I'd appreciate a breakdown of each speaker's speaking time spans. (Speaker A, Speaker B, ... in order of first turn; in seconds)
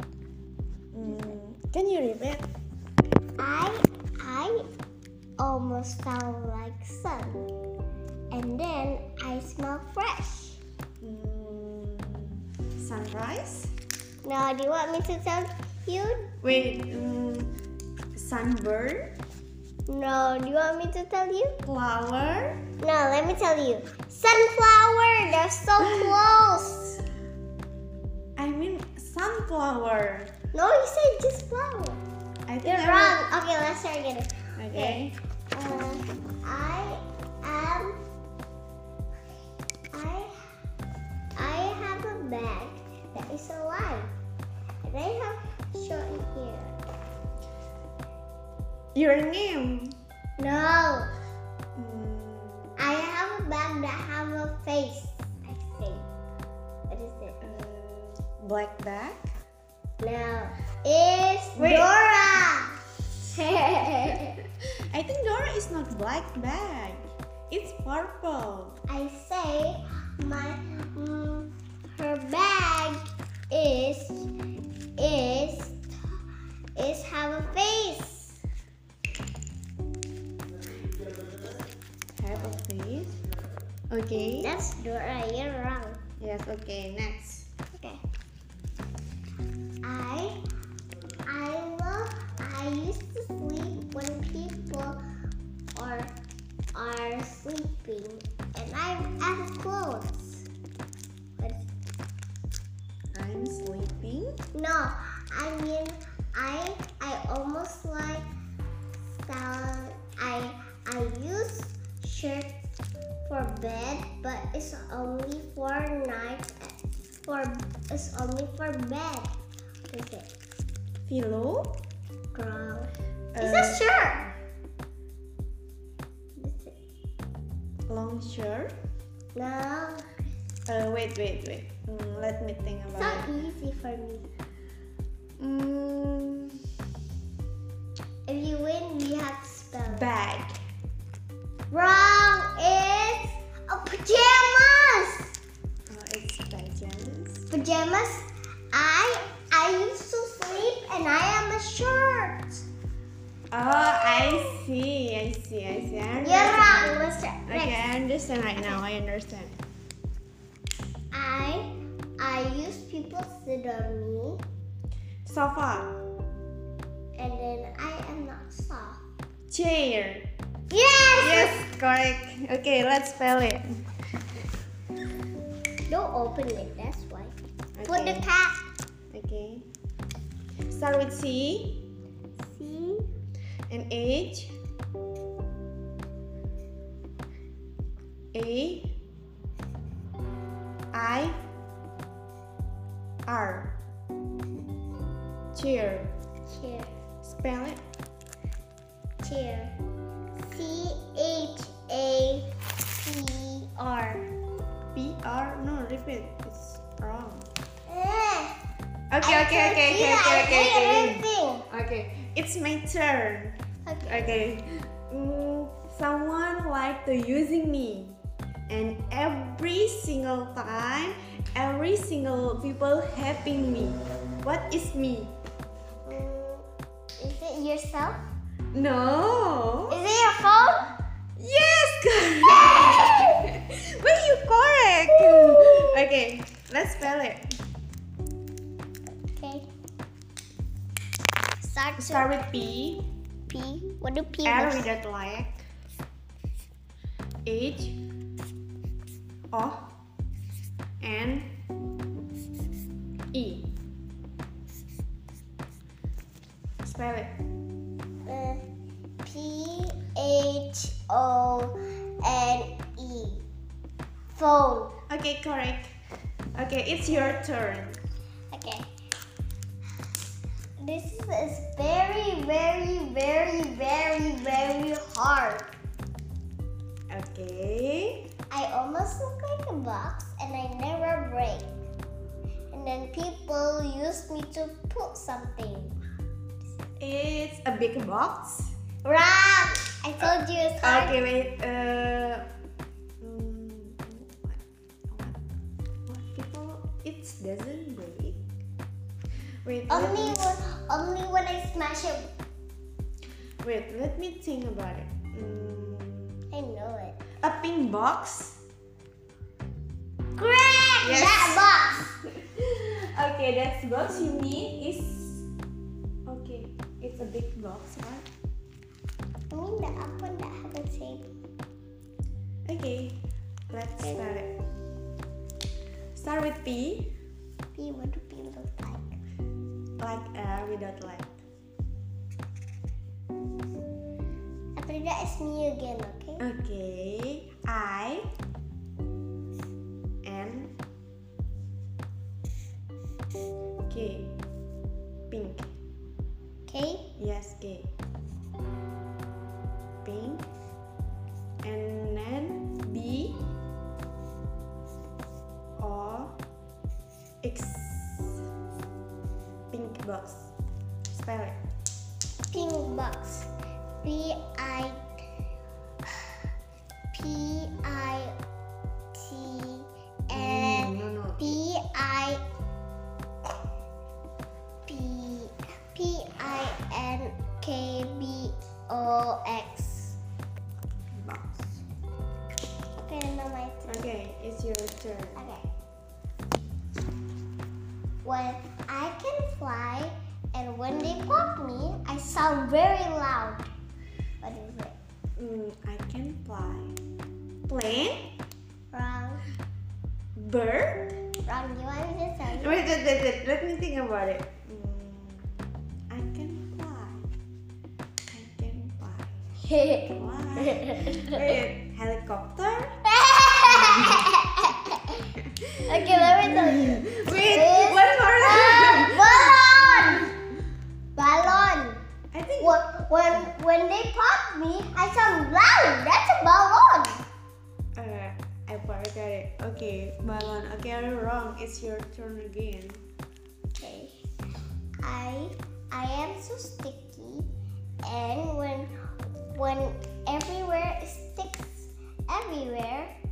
Speaker A: 0.9-2.5, 11.0-13.7, 16.4-17.5, 18.1-19.1, 21.6-22.6, 28.4-30.3, 32.5-33.2, 34.6-35.2, 48.9-50.0, 51.8-52.8, 57.4-59.3, 61.5-61.9, 64.6-68.8, 82.2-83.2, 83.9-84.5, 86.2-87.5, 103.1-104.4, 121.0-121.7, 123.3-123.9, 127.9-128.7, 130.7-133.2, 135.4-136.6, 139.9-140.6, 145.9-147.5, 153.5-159.6, 165.2-165.9, 169.5-170.3, 171.2-173.8, 177.8-178.3, 179.1-179.7, 180.7-181.8, 183.7-184.6, 188.3-188.9, 190.9-191.4, 193.3-193.8, 195.6-196.1, 197.2-197.8, 204.9-207.5, 209.1-225.3, 228.7-230.0, 231.4-237.5, 242.0-243.1, 244.4-245.6, 247.4-248.0, 249.5-249.9, 251.0-251.5, 253.3-253.7, 256.8-257.3, 265.1-265.9, 266.5-268.0, 277.1-278.2, 287.0-288.8, 290.2-292.5, 293.2-295.4, 296.1-298.4, 299.6-300.4, 303.6-306.4, 307.4-308.6, 311.0-311.6, 312.3-315.5, 316.2-318.2, 322.7-324.5, 326.1-327.1, 330.0-331.3, 336.4-338.3, 340.2-340.8, 343.9-344.3, 345.3-345.7, 347.2-347.9, 350.0-350.5, 351.6-353.4, 355.8-356.4, 357.4-358.5, 359.7-360.5, 361.1-361.6, 370.3-371.6, 381.1-381.8, 383.9-385.4, 395.4-396.9, 397.7-398.3, 400.4-401.2, 402.6-407.3, 408.3-409.4, 410.1-412.9, 413.7-414.2, 415.4-420.3, 422.3-422.8, 427.9-433.0
Speaker B: 3.4-4.7, 5.4-7.5, 8.3-10.6, 14.2-16.3, 19.9-21.6, 22.8-27.0, 30.5-32.0, 32.6-35.0, 35.5-38.0, 39.9-40.3, 41.4-44.1, 44.8-46.8, 50.4-51.1, 52.8-56.1, 56.9-57.4, 60.0-62.8, 63.3-64.4, 68.9-74.3, 75.0-76.2, 76.8-78.4, 84.4-86.0, 87.7-88.0, 89.8-90.4, 91.2-95.0, 95.7-96.1, 96.7-100.5, 101.4-101.7, 104.5-108.2, 109.2-112.5, 113.2-119.3, 119.9-120.3, 122.3-124.3, 126.4-126.7, 129.3-130.1, 132.9-134.3, 138.3-140.1, 141.7-145.3, 147.5-152.7, 153.7-154.6, 156.2-157.8, 161.1-164.4, 167.2-169.0, 170.7-171.6, 175.9-177.3, 177.9-178.6, 182.4-183.1, 196.5-196.9, 199.2-199.7, 200.4-204.3, 207.9-208.6, 209.2-211.7, 213.9-214.3, 226.1-226.7, 227.2-228.3, 229.9-230.9, 232.5-233.4, 235.1-235.9, 239.1-239.7, 241.6-242.3, 243.5-244.9, 258.2-258.6, 259.2-263.4, 264.4-264.9, 268.5-268.9, 270.8-275.7, 278.5-281.7, 282.7-285.9, 289.0-291.1, 299.9-302.3, 306.5-307.2, 310.4-312.2, 319.5-321.3, 327.8-329.2, 334.8-336.4, 346.7-347.1, 362.5-363.5, 364.0-365.0, 367.1-368.4, 369.1-372.4, 374.9-380.2, 383.0-384.1, 385.4-385.6, 388.2-393.7, 394.4-394.9, 398.9-399.4, 401.4-402.8, 409.6-411.4, 413.1-415.3, 415.9-420.3, 421.2-422.0, 422.6-427.2, 433.8-434.2, 435.0-437.5, 438.0-438.9, 439.5-443.1